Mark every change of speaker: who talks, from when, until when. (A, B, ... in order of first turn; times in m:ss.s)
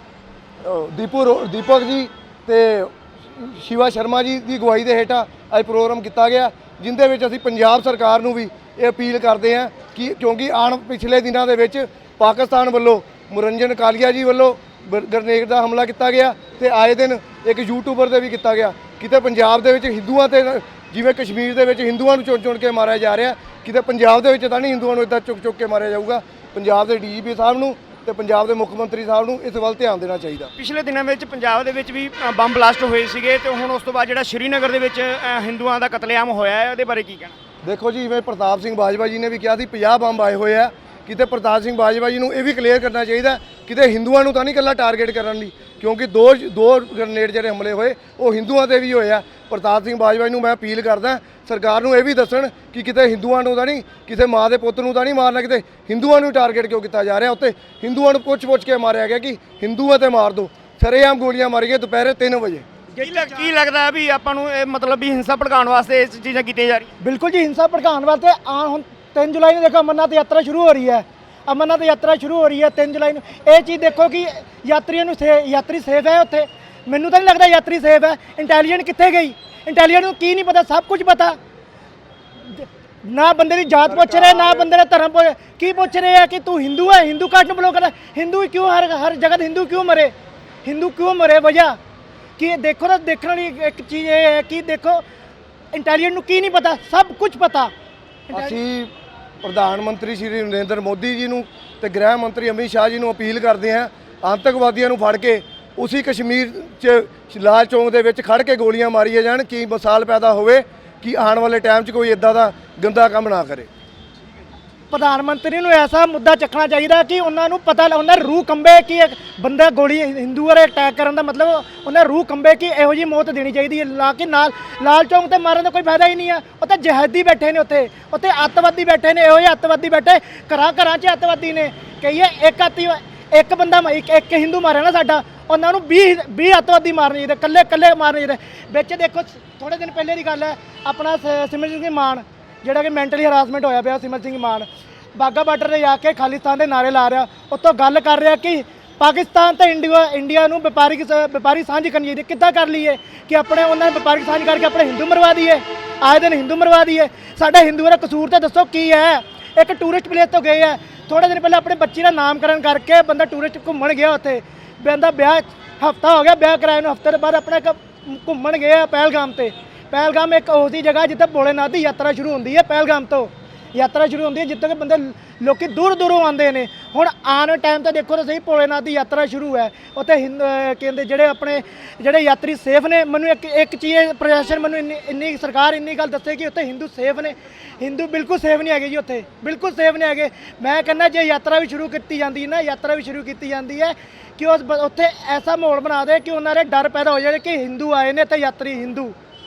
0:00.6-0:30.5 A
0:30.6-0:37.4 B
0:37.6-1:02.6 A
1:02.9-1:06.9 B
1:03.0-1:03.4 C
1:07.0-1:21.4 C
1:22.4-1:30.1 C
1:23.9-1:24.7 A
1:30.6-1:31.8 C
1:32.4-1:35.0 C
1:35.7-1:37.7 C
1:38.3-1:38.6 C
1:38.3-1:38.9 A
1:39.4-1:53.7 A
1:54.9-3:19.2 C